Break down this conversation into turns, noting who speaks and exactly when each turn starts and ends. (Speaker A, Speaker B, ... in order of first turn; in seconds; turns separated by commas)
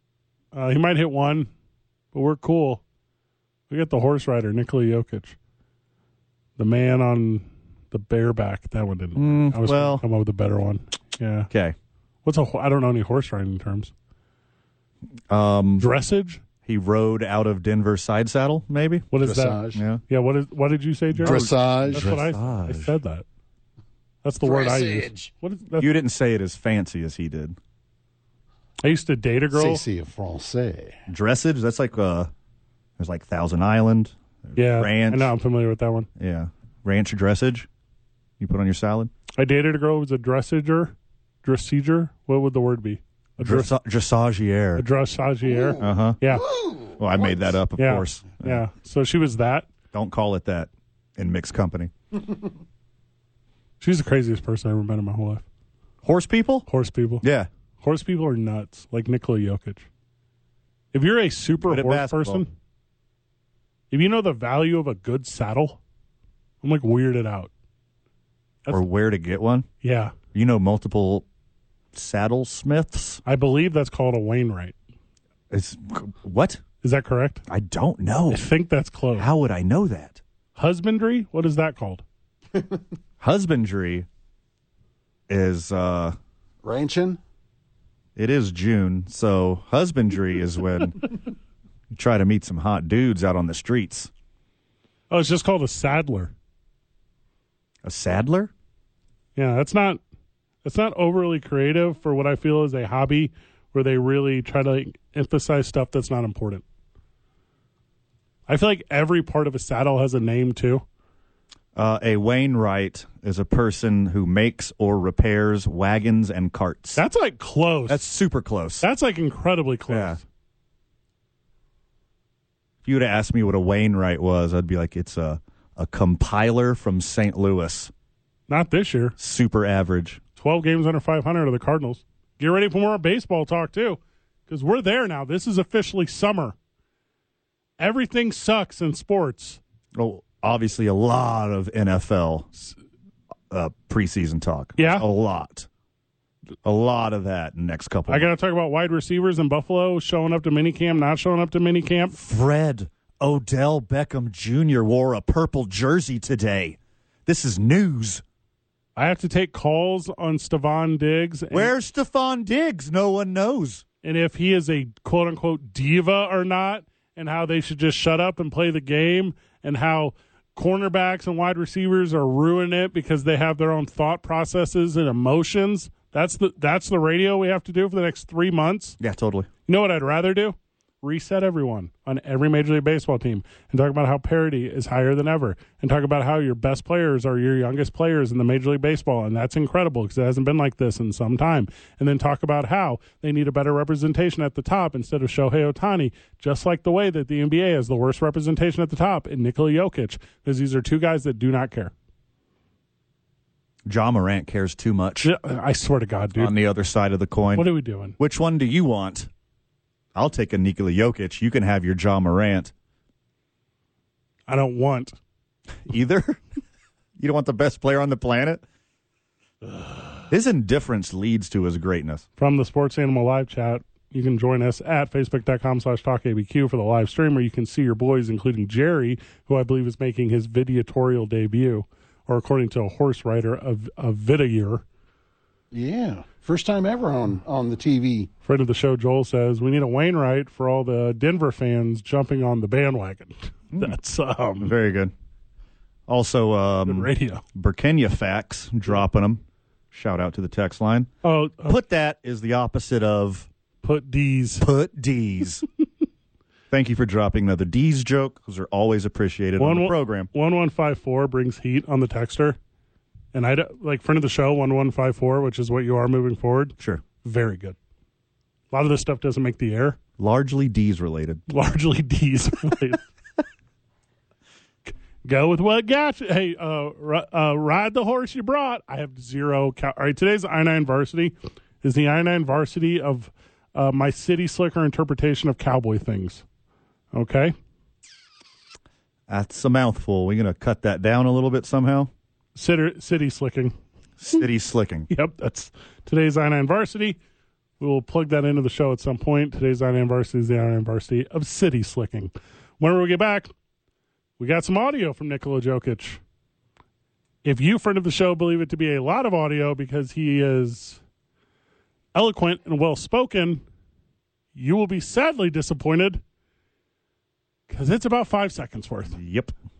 Speaker A: 0.5-1.5, Speaker A: 2.1-2.8, Speaker A: 3.7-5.3, Speaker A: 6.6-11.5, Speaker B: 9.2-10.0, Speaker B: 11.5-11.8, Speaker A: 12.2-13.9, Speaker B: 15.3-15.9, Speaker A: 15.8-16.4, Speaker B: 16.6-19.1, Speaker A: 19.1-23.2, Speaker C: 19.2-19.8, Speaker B: 19.7-20.0, Speaker B: 21.1-22.9, Speaker C: 21.2-22.2, Speaker A: 24.2-25.9, Speaker C: 24.8-25.2, Speaker B: 25.8-27.6, Speaker A: 28.8-29.8, Speaker C: 29.5-30.9, Speaker B: 31.1-32.3, Speaker B: 33.0-35.3, Speaker A: 34.5-36.1, Speaker B: 36.2-37.7, Speaker B: 38.4-39.1, Speaker A: 39.4-43.7, Speaker B: 43.4-44.8, Speaker A: 44.8-46.5, Speaker C: 45.4-47.4, Speaker B: 45.8-46.2, Speaker B: 47.0-48.6, Speaker A: 47.8-49.7, Speaker B: 49.9-51.9, Speaker A: 53.8-55.4, Speaker B: 56.0-56.7, Speaker A: 56.7-57.2, Speaker B: 57.2-57.5, Speaker A: 57.8-59.9, Speaker A: 60.9-62.5, Speaker B: 61.6-62.4, Speaker A: 63.9-65.8, Speaker A: 66.6-67.5, Speaker B: 68.7-69.7, Speaker A: 69.8-70.1, Speaker B: 70.3-71.2, Speaker B: 71.9-73.2, Speaker A: 73.2-74.7, Speaker B: 75.5-76.6, Speaker A: 76.8-77.4, Speaker B: 77.5-78.5, Speaker A: 78.3-79.3, Speaker B: 79.1-80.2, Speaker A: 80.5-82.0, Speaker B: 83.2-84.1, Speaker B: 85.3-86.2, Speaker C: 86.6-87.2, Speaker B: 88.2-91.1, Speaker B: 91.9-94.1, Speaker A: 95.1-96.3, Speaker B: 97.8-98.5, Speaker A: 99.3-100.0, Speaker A: 100.6-106.6, Speaker A: 108.5-110.8, Speaker B: 111.7-117.0, Speaker A: 117.0-118.0, Speaker B: 117.9-118.9, Speaker A: 118.8-120.2, Speaker B: 119.9-120.2, Speaker B: 122.8-127.9, Speaker A: 128.5-129.2, Speaker B: 129.2-130.2, Speaker A: 130.4-136.6, Speaker A: 137.8-139.6, Speaker B: 139.9-142.5, Speaker B: 143.5-145.7, Speaker A: 144.8-145.1, Speaker B: 146.6-148.3, Speaker A: 148.1-152.2, Speaker B: 152.1-158.2, Speaker A: 158.9-161.7, Speaker B: 161.5-163.8, Speaker A: 164.0-179.0, Speaker B: 179.0-179.5, Speaker A: 179.7-201.9, Speaker B: 203.8-205.3, Speaker A: 205.2-206.5, Speaker B: 206.3-209.3, Speaker A: 207.5-208.2, Speaker B: 210.1-212.7, Speaker A: 214.5-215.1, Speaker B: 215.9-216.4, Speaker B: 217.2-218.6, Speaker B: 220.3-222.2, Speaker A: 222.4-234.8, Speaker C: 235.7-238.3, Speaker A: 238.4-244.7, Speaker B: 244.6-245.1, Speaker B: 246.1-251.1, Speaker A: 246.8-247.4, Speaker A: 251.2-251.8, Speaker B: 251.6-253.5, Speaker A: 253.8-254.7, Speaker B: 254.6-255.6, Speaker B: 256.7-260.3, Speaker A: 259.6-262.6, Speaker A: 263.3-267.8, Speaker A: 268.7-270.0, Speaker B: 270.2-271.4, Speaker A: 271.5-273.0, Speaker A: 274.9-286.4, Speaker A: 287.1-287.5, Speaker B: 289.3-292.1, Speaker A: 292.5-293.7, Speaker B: 294.2-295.1, Speaker A: 295.1-297.2, Speaker A: 297.8-303.5, Speaker A: 304.4-306.2, Speaker A: 307.4-311.0, Speaker A: 312.1-313.6, Speaker A: 314.5-316.2, Speaker A: 317.7-319.2, Speaker B: 319.1-319.5